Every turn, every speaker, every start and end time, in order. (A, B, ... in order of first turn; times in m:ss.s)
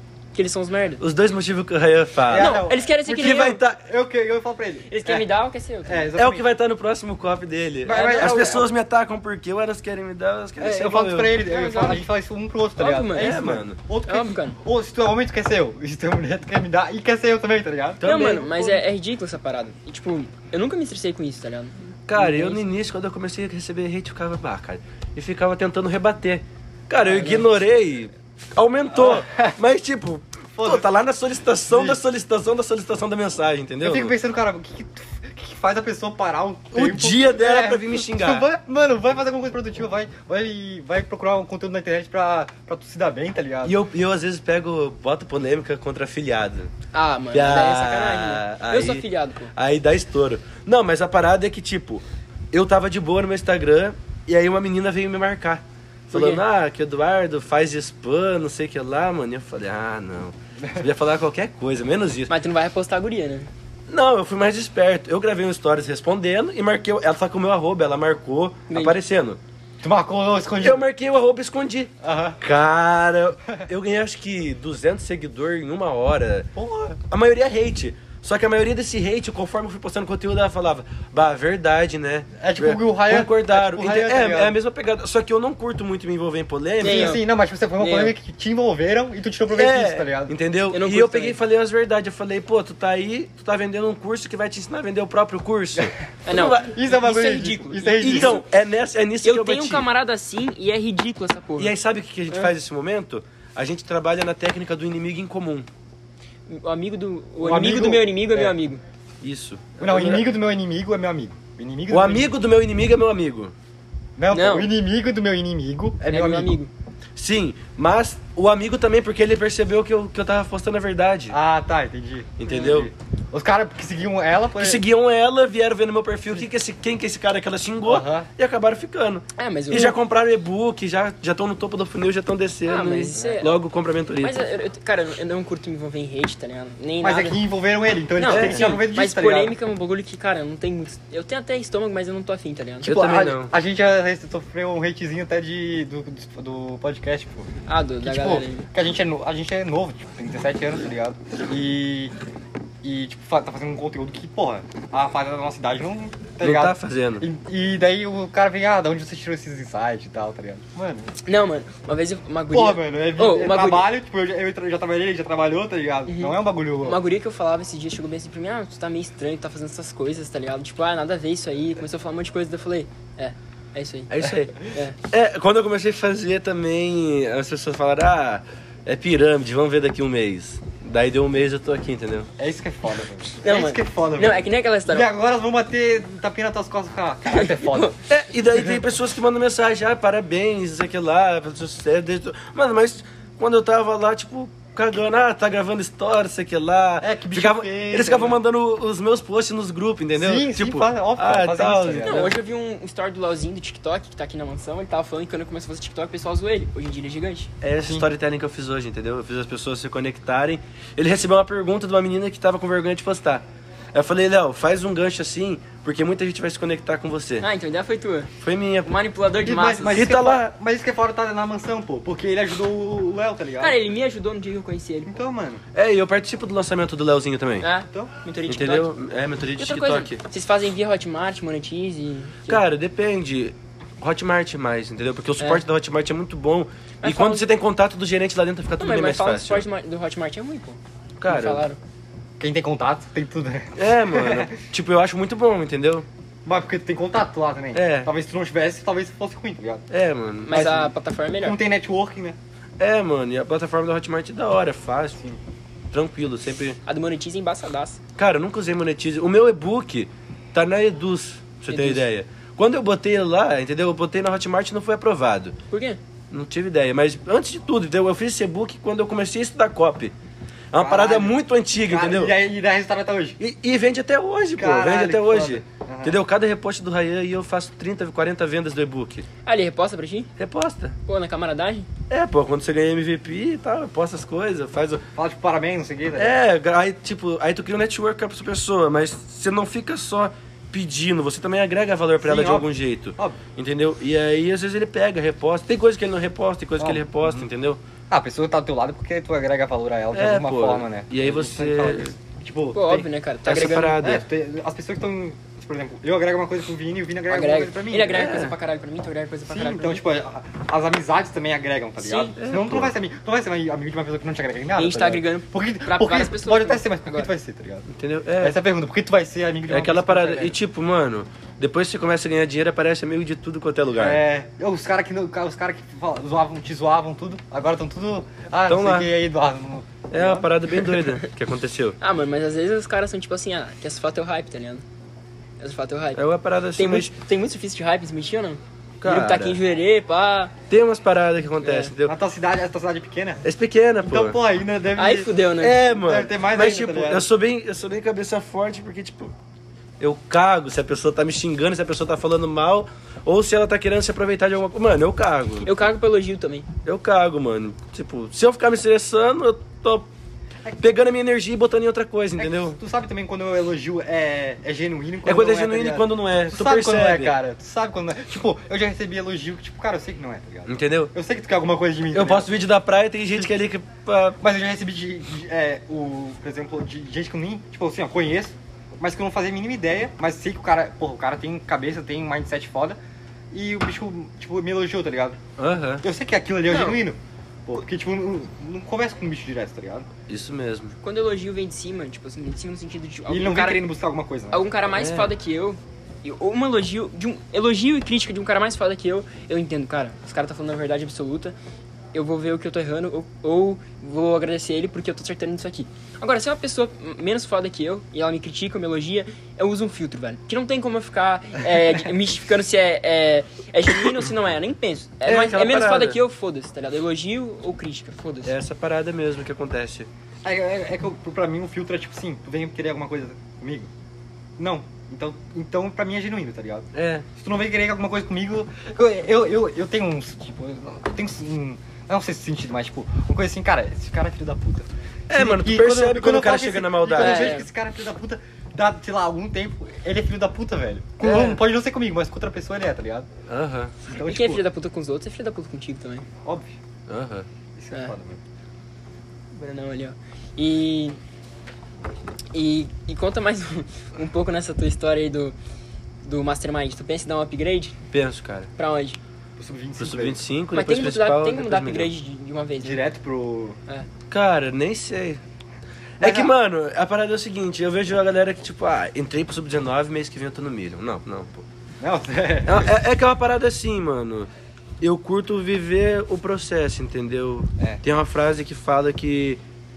0:00.3-0:01.0 A
0:01.0-0:03.8 B
0:02.3-0:05.2 C
0:02.3-0:03.6 A
0:04.9-0:06.1 A
0:05.8-0:06.5 C
0:06.2-0:11.4 B
0:07.8-0:08.6 C
0:07.9-0:08.6 A
0:10.6-0:18.0 C
0:11.4-0:12.0 A
0:12.8-0:13.4 A
0:13.1-0:13.8 B
0:14.1-0:14.6 A
0:18.0-0:18.8 B
0:18.0-0:22.6 A
0:22.1-0:34.1 B
0:27.0-0:27.5 C
0:28.9-0:29.5 C
0:30.6-0:30.9 C
0:31.7-0:32.0 C
0:33.8-0:43.8 C
0:36.7-0:38.5 B
0:43.6-0:46.7 B
0:46.9-0:49.5 A
0:47.3-1:02.3 B
0:56.1-0:56.4 A
1:02.3-1:03.5 A
1:03.9-1:09.4 B
1:08.7-1:09.0 A
1:09.8-1:10.8 C
1:10.6-1:16.5 B
1:12.0-1:12.4 C
1:16.5-1:17.0 C
1:17.1-1:27.2 B
1:22.4-1:24.5 C
1:26.8-1:30.3 C
1:26.8-1:27.2 A
1:27.8-1:28.1 A
1:29.5-1:36.7 B
1:30.7-1:31.4 A
1:36.2-1:38.4 A
1:36.5-1:38.4 C
1:38.0-1:39.8 B
1:39.2-1:41.7 A
1:41.6-1:45.7 B
1:46.5-1:48.8 A
1:47.4-1:48.5 C
1:49.2-1:50.2 B
1:49.8-1:52.3 C
1:51.9-1:53.5 B
1:54.2-1:56.5 C
1:54.3-1:54.7 A
1:56.0-1:56.7 A
1:57.2-2:01.4 B
2:01.3-2:04.8 C
2:02.4-2:02.9 B
2:04.6-2:14.4 B
2:07.8-2:08.3 C
2:09.4-2:10.0 A
2:12.6-2:13.5 A
2:14.2-2:17.4 A
2:17.0-2:19.5 C
2:18.2-2:22.9 A
2:18.3-2:18.8 B
2:22.8-2:23.5 B
2:22.8-2:27.5 C
2:27.7-2:28.7 A
2:28.0-2:32.1 C
2:32.8-2:41.1 C
2:36.4-2:37.2 B
2:41.2-2:43.9 A
2:42.5-2:47.0 C
2:46.1-2:55.0 A
2:54.1-3:02.3 B
3:02.4-3:08.0 C
3:03.4-3:05.1 A
3:07.3-3:07.9 A
3:08.1-3:22.3 B
3:17.0-3:18.4 C
3:20.1-3:22.3 C
3:22.0-3:27.5 A
3:27.6-3:37.5 B
3:37.4-3:38.3 A
3:38.4-3:38.9 B
3:38.8-3:40.0 A
3:39.4-3:43.8 C
3:39.9-3:40.5 B
3:43.6-3:45.1 A
3:45.1-3:45.6 C
3:45.7-3:47.6 B
3:47.6-3:48.9 A
3:48.5-3:50.2 B
3:49.6-3:52.6 A
3:52.5-3:59.6 B
3:57.0-3:57.4 A
3:58.8-4:01.8 A
4:01.2-4:01.6 B
4:02.4-4:04.5 C
4:03.8-4:06.0 B
4:06.4-4:09.8 C
4:07.7-4:08.1 B
4:09.9-4:10.7 B
4:10.4-4:11.6 A
4:10.5-4:12.4 C
4:12.8-4:15.2 B
4:15.9-4:16.8 B
4:16.8-4:18.0 A
4:18.2-4:25.6 B
4:21.7-4:22.0 A
4:25.7-4:26.0 A
4:26.3-4:30.1 B
4:30.7-4:32.4 B
4:30.7-4:33.4 C
4:33.4-4:39.2 B
4:34.6-4:36.2 C
4:39.4-4:40.3 A
4:40.4-4:41.0 B
4:41.0-4:41.9 A
4:42.1-4:45.0 B
4:45.2-4:46.4 C
4:46.2-4:57.8 B
4:52.2-4:53.4 C
4:56.8-4:57.4 C
4:58.1-5:03.1 C
5:00.1-5:02.1 B
5:02.7-5:04.0 A
5:03.4-5:04.2 B
5:04.0-5:08.3 C
5:07.3-5:10.0 A
5:08.1-5:08.5 B
5:09.5-5:17.8 C
5:12.0-5:12.3 A
5:12.4-5:12.9 B
5:14.8-5:17.3 A
5:17.9-5:18.6 B
5:18.4-5:20.6 C
5:19.7-5:24.2 B
5:24.0-5:30.5 C
5:28.7-5:29.1 B
5:30.1-5:32.0 B
5:32.0-5:34.8 A
5:35.6-5:36.2 A
5:36.2-5:37.1 B
5:36.8-5:40.5 A
5:39.0-5:39.6 B
5:40.7-5:42.1 B
5:41.6-5:41.9 A
5:42.0-5:43.4 C
5:43.4-5:44.4 B
5:44.0-5:45.3 C
5:45.0-5:45.8 A
5:45.6-5:49.3 B
5:45.9-5:47.3 C
5:50.0-5:55.7 B
5:55.6-5:56.7 A
5:56.8-6:00.1 B
6:00.8-6:02.8 B
6:02.4-6:12.5 C
6:05.2-6:07.3 B
6:10.7-6:11.1 B
6:12.1-6:14.4 B
6:14.4-6:23.0 C
6:23.5-6:25.4 C
6:25.6-6:26.0 B
6:26.0-6:30.1 C
6:26.7-6:27.0 A
6:30.3-6:31.0 B
6:31.0-6:33.9 A
6:33.3-6:34.7 C
6:34.5-6:41.5 A
6:34.9-6:35.3 B
6:42.1-6:58.5 A
6:55.2-6:56.2 B
6:58.4-7:00.1 B
7:00.4-7:03.9 C
7:04.6-7:23.3 C
7:06.9-7:07.2 B
7:15.3-7:17.6 B
7:17.2-7:17.7 A
7:21.2-7:21.6 B
7:23.5-7:23.9 B
7:24.0-7:24.6 C
7:24.2-7:26.3 A
7:26.4-7:26.7 C
7:27.1-7:27.5 B
7:27.8-7:28.4 C
7:29.5-7:31.2 A
7:32.5-7:35.5 A
7:36.2-7:38.0 A
7:38.1-7:38.7 B
7:38.8-7:39.2 A
7:39.6-7:40.4 C
7:40.0-7:42.1 B
7:40.7-7:43.0 A
7:42.8-7:43.8 C
7:44.3-7:45.4 B
7:46.2-7:51.6 B
7:46.2-7:46.5 C
7:52.0-7:52.9 C
7:52.6-7:54.5 B
7:55.0-7:59.6 B